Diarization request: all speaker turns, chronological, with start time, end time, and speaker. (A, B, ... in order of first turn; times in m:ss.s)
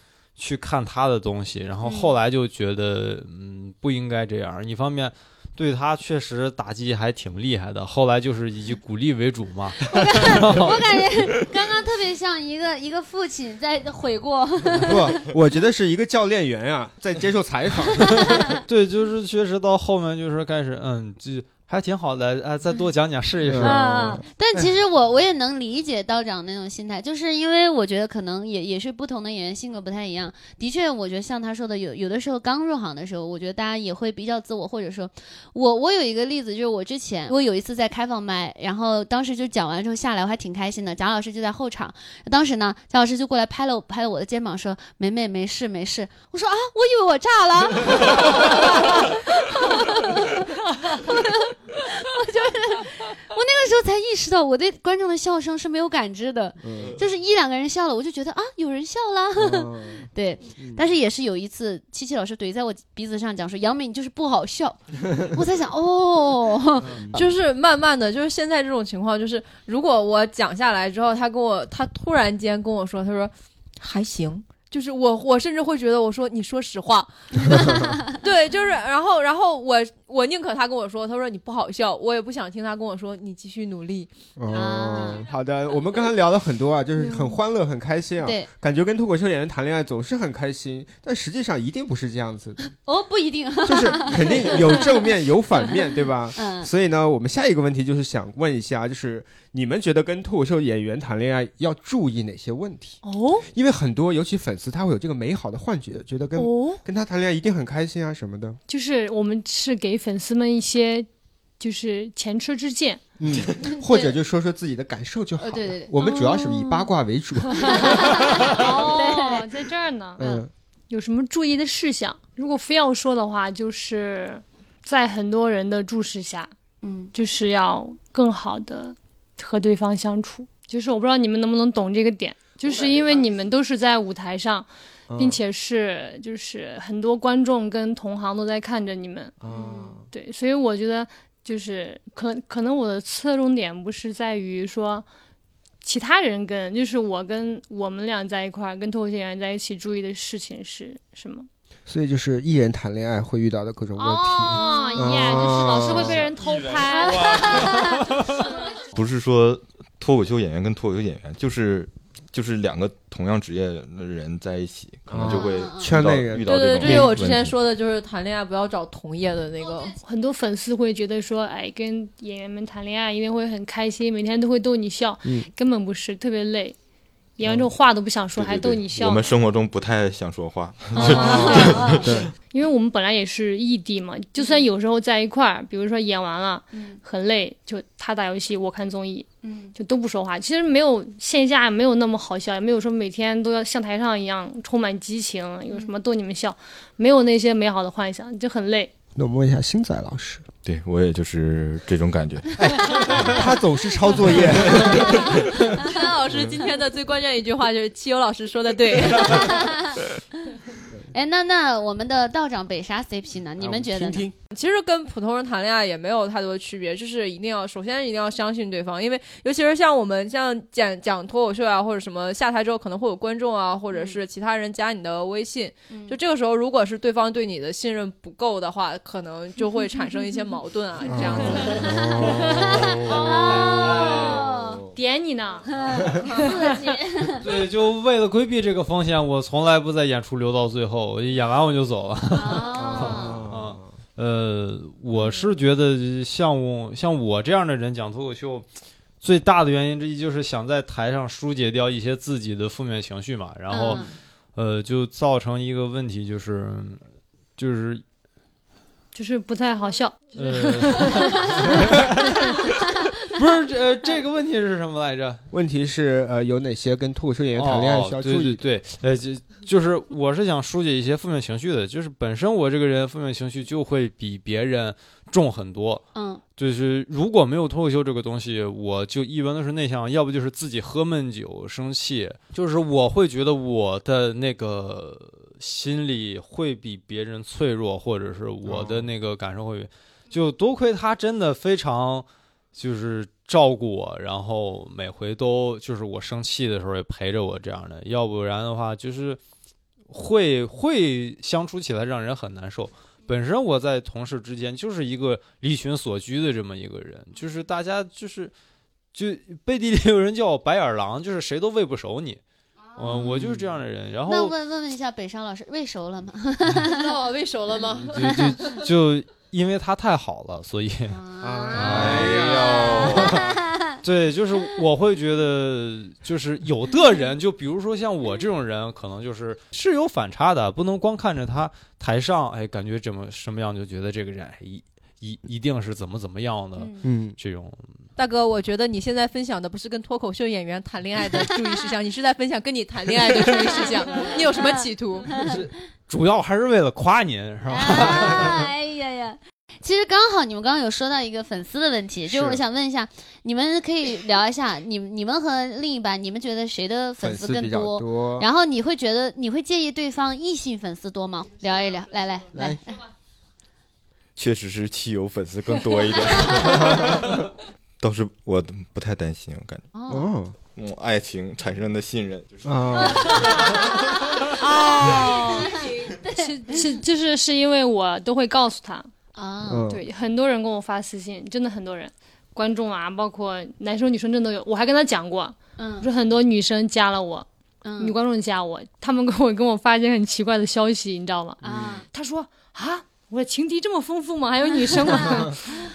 0:00.4-0:10.8 A
0:01.8-0:02.2 B
0:09.8-0:15.2 B
0:14.8-0:18.6 C
0:18.7-0:24.2 A
0:23.4-0:24.7 C
0:23.6-1:07.2 B
0:56.6-0:57.0 C
0:59.4-1:00.1 C
1:00.6-1:00.9 C
1:06.8-1:07.2 C
1:07.2-1:17.2 D
1:17.4-1:18.0 B
1:18.2-1:24.1 D
1:24.4-1:32.7 C
1:24.5-1:25.2 B
1:27.1-1:27.4 E
1:28.2-1:28.5 B
1:32.7-1:35.1 B
1:33.6-1:48.6 C
1:36.4-1:36.7 B
1:43.0-1:43.4 E
1:46.4-1:46.8 E
1:48.7-1:51.1 E
1:51.6-1:53.0 E
1:53.2-1:58.3 C
1:53.6-1:54.2 B
1:55.4-1:56.9 B
1:57.6-1:59.5 B
1:58.4-2:00.2 E
2:00.2-2:00.5 C
2:00.9-2:06.5 E
2:06.8-2:07.1 B
2:07.1-2:19.4 E
2:15.1-2:15.4 C
2:19.4-2:20.1 C
2:19.5-2:19.9 B
2:20.1-2:25.0 E
2:25.8-2:31.5 E
2:31.9-2:36.3 C
2:34.0-2:37.7 E
2:34.5-2:36.1 B
2:36.9-2:38.6 B
2:37.3-2:37.7 F
2:38.9-2:47.5 F
2:45.1-2:47.4 C
2:45.3-2:46.0 B
2:46.4-2:50.0 D
2:50.0-2:56.8 E
2:57.4-2:59.3 E
2:58.4-3:02.3 F
3:01.0-3:02.1 B
3:01.0-3:01.9 E
3:01.0-3:02.3 C
3:02.5-3:18.9 E
3:04.4-3:04.7 B
3:06.7-3:07.0 B
3:09.4-3:09.7 B
3:19.2-3:20.4 C
3:20.6-3:23.2 F
3:22.6-3:25.8 C
3:22.9-3:23.3 B
3:25.4-3:26.0 B
3:25.8-3:29.6 D
3:29.2-3:30.2 B
3:31.1-3:34.3 B
3:33.6-3:34.4 C
3:34.5-3:51.9 D
3:43.9-3:44.2 B
3:45.9-3:46.2 B
3:51.1-3:53.2 C
3:51.6-3:54.9 B
3:52.2-3:54.6 A
3:54.9-3:55.7 E
3:55.7-3:57.6 B
3:56.2-3:56.8 E
3:57.4-4:08.7 A
4:02.3-4:03.4 B
4:02.7-4:03.9 C
4:05.2-4:05.4 B
4:09.2-4:17.0 A
4:13.7-4:14.1 B
4:17.6-4:18.0 A
4:19.1-4:21.4 E
4:20.4-4:25.4 A
4:25.5-4:28.6 C
4:27.6-4:36.0 A
4:36.2-4:36.4 B
4:36.6-4:59.4 A
4:48.6-4:49.1 C
5:00.1-5:08.5 A
5:09.1-5:12.4 A
5:13.0-5:14.6 A
5:13.0-5:13.5 B
5:14.3-5:17.1 B
5:16.8-5:18.8 D
5:18.1-5:21.2 A
5:18.2-5:18.6 B
5:21.1-5:24.0 B
5:21.4-5:23.5 C
5:21.7-5:23.5 A
5:22.0-5:23.2 F
5:24.0-5:37.8 A
5:36.8-5:37.1 B
5:37.0-5:37.4 C
5:38.2-5:45.4 D
5:41.4-5:41.7 B
5:44.1-5:44.7 B
5:45.3-5:45.6 B
5:45.3-5:48.7 A
5:47.7-6:03.1 B
5:52.3-5:52.6 C
5:57.2-5:58.5 C
6:02.5-6:02.8 C
6:04.4-6:07.4 F
6:06.7-6:07.3 C
6:08.0-6:09.9 F
6:10.0-6:10.3 B
6:10.1-6:10.6 C
6:10.8-6:13.9 F
6:12.6-6:13.6 C
6:13.1-6:16.9 B
6:14.6-6:19.1 E
6:15.4-6:15.9 D
6:19.4-6:19.9 B
6:19.7-6:20.0 C
6:19.9-6:27.5 E
6:25.8-6:26.1 B
6:27.8-6:28.2 B
6:28.0-6:31.6 E
6:31.6-6:32.0 B
6:31.6-6:32.0 C
6:32.1-6:35.6 E
6:35.1-6:35.5 B